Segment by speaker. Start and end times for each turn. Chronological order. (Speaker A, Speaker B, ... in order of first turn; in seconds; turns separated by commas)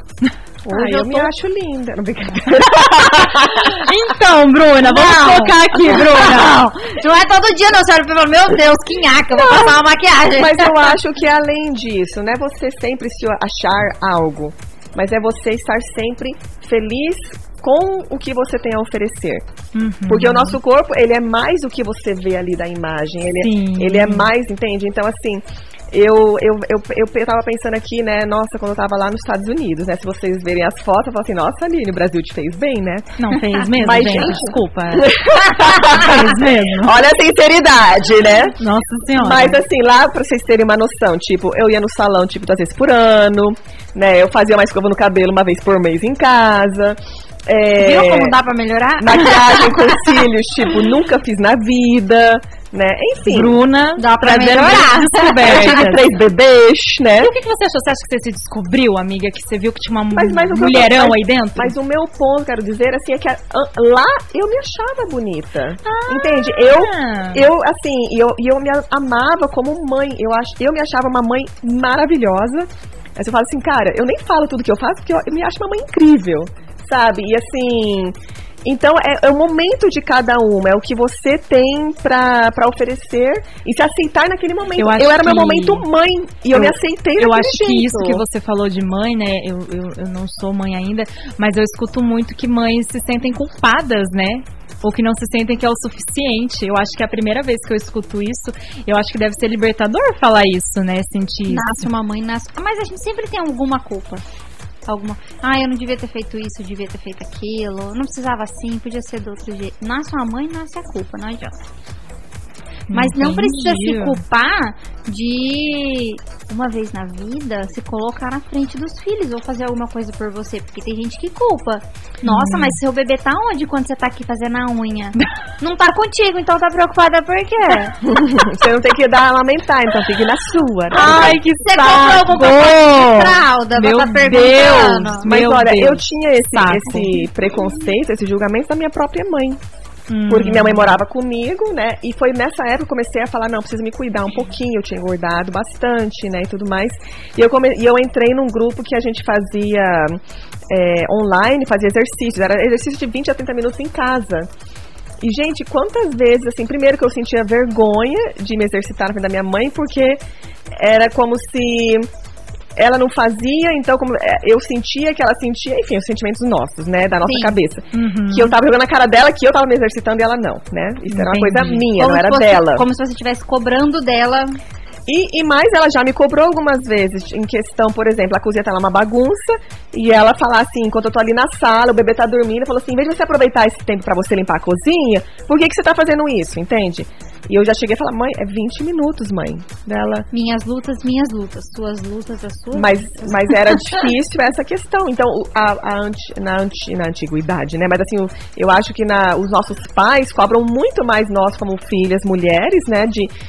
Speaker A: 0.6-3.9, Speaker B: 0.7-1.3, Speaker C: 3.5-6.5, Speaker B: 4.8-10.9, Speaker A: 9.3-19.5, Speaker C: 19.7-20.6, Speaker A: 20.1-33.2, Speaker C: 23.4-24.3, Speaker C: 33.2-37.0, Speaker A: 33.7-38.6, Speaker C: 38.6-39.6, Speaker A: 39.2-48.4, Speaker B: 47.8-50.2, Speaker A: 49.0-53.6, Speaker C: 53.2-56.0, Speaker B: 54.0-55.8, Speaker A: 55.4-57.3, Speaker C: 57.2-61.7, Speaker A: 60.1-88.2, Speaker C: 65.9-67.5, Speaker C: 84.8-85.9, Speaker C: 86.5-101.8, Speaker B: 101.5-104.2, Speaker B: 104.9-111.5, Speaker C: 112.9-114.2, Speaker B: 112.9-128.0, Speaker C: 122.2-122.8, Speaker A: 128.0-131.4, Speaker C: 130.9-137.2, Speaker B: 130.9-135.2, Speaker A: 135.2-139.6, Speaker C: 140.1-141.0, Speaker A: 140.3-154.5, Speaker A: 155.2-160.2, Speaker A: 160.7-162.1, Speaker A: 162.8-172.8, Speaker B: 167.3-167.5, Speaker C: 167.9-168.5, Speaker C: 171.1-171.9, Speaker B: 171.9-174.6, Speaker A: 175.1-190.3, Speaker B: 190.3-194.1, Speaker A: 192.7-203.3